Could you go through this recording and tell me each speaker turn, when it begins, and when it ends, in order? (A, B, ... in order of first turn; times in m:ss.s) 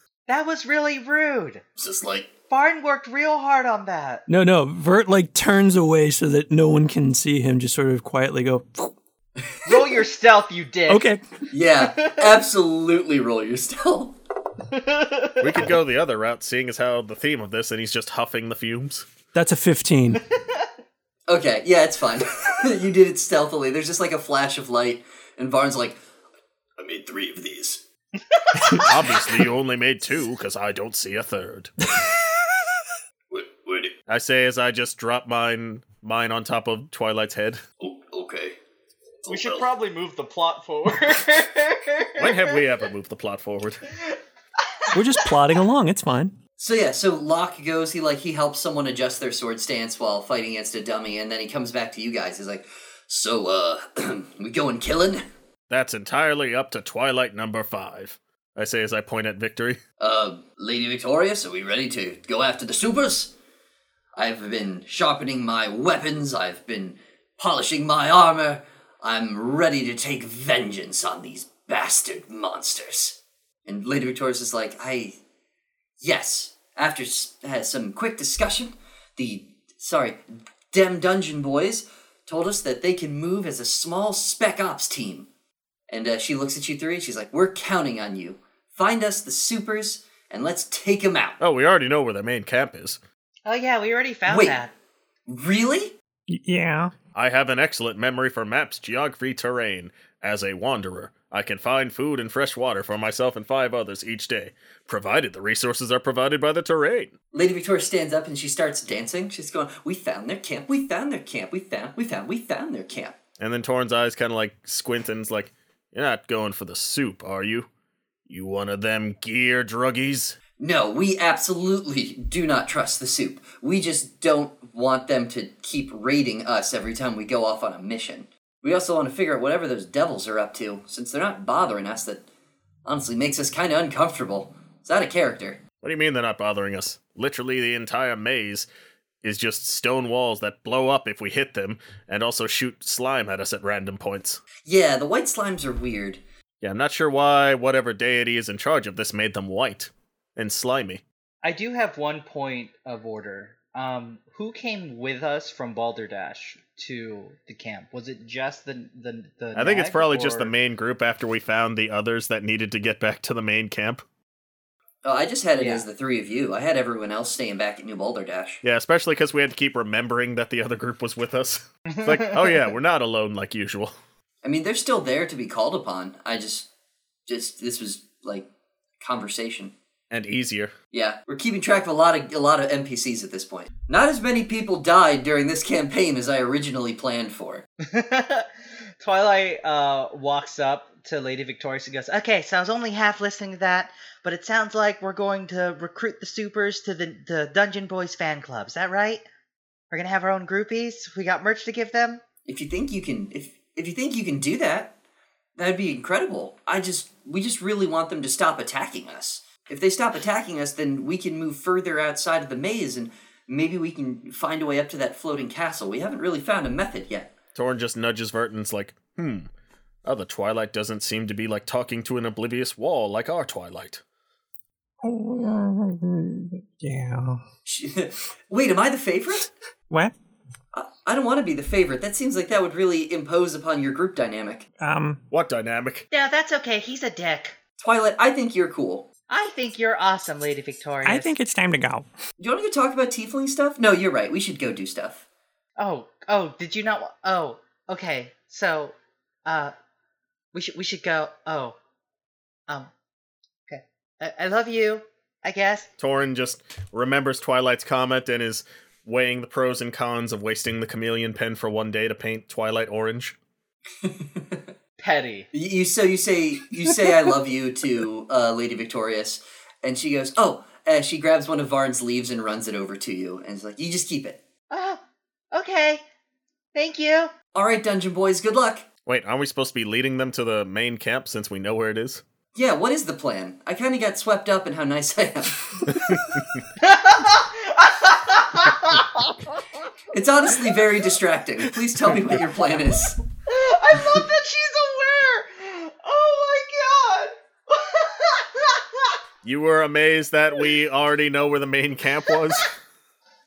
0:00.3-0:01.6 A
0:01.8-0:02.3 B
0:02.5-0:04.2 A
0:04.3-0:08.9 C
0:09.7-0:10.9 D
0:10.1-0:11.0 A
0:10.9-0:11.4 C
0:11.5-0:14.2 B
0:15.4-0:19.1 E
0:19.3-0:20.2 C
0:21.3-0:26.0 B
0:26.8-0:27.8 B
0:28.8-0:31.7 E
0:33.3-0:33.9 B
0:34.1-0:37.6 E
0:37.8-0:38.6 B
0:39.2-0:39.6 B
0:39.3-0:41.1 D
0:42.2-0:43.8 E
0:44.9-0:46.4 C
0:46.6-0:55.2 B
0:55.7-0:59.8 E
1:00.0-1:03.3 B
1:04.2-1:15.2 B
1:16.0-1:25.3 B
1:25.9-1:31.4 B
1:31.4-1:33.0 E
1:33.4-1:34.7 A
1:34.3-1:34.6 B
1:35.3-1:35.9 B
1:36.3-1:36.9 C
1:37.1-1:47.1 E
1:47.3-1:53.2 B
1:53.4-1:57.7 E
1:58.3-2:00.4 E
2:00.6-2:12.2 B
2:12.8-2:15.6 B
2:15.8-2:18.7 E
2:19.2-2:24.4 E
2:24.6-2:26.2 B
2:26.6-2:31.0 E
2:31.4-2:40.5 D
2:39.5-2:44.0 E
2:45.0-2:48.6 B
2:48.6-2:53.9 E
2:54.4-2:56.7 B
2:57.3-2:58.5 B
2:59.0-2:59.7 B
3:00.1-3:00.7 E
3:00.9-3:07.6 B
3:08.0-3:08.4 A
3:09.0-3:11.8 D
3:09.0-3:19.2 A
3:19.9-3:22.2 A
3:22.4-3:24.9 B
3:25.6-3:37.3 B
3:37.5-3:39.5 E
3:40.0-3:44.0 E
3:45.0-3:47.4 C
3:47.6-3:49.5 B
3:50.7-3:54.6 B
3:54.8-3:55.2 C
3:55.3-3:56.0 E
3:56.1-3:57.6 A
3:57.8-3:59.1 B
3:59.3-4:01.3 A
4:01.0-4:02.1 C
4:02.4-4:05.2 B
4:05.8-4:08.9 A
4:09.4-4:09.7 A
4:10.5-4:11.8 A
4:13.7-4:15.9 A
4:16.0-4:23.4 E
4:24.0-4:24.7 B
4:25.0-4:25.4 A
4:25.5-4:34.4 B
4:34.7-4:35.0 A
4:35.5-4:36.0 A
4:36.7-4:37.3 A
4:37.5-4:38.8 B
4:39.0-4:42.2 E
4:42.5-4:46.2 B
4:48.0-4:48.8 A
4:50.1-4:53.2 B
4:53.5-4:58.4 A
4:59.4-5:02.7 E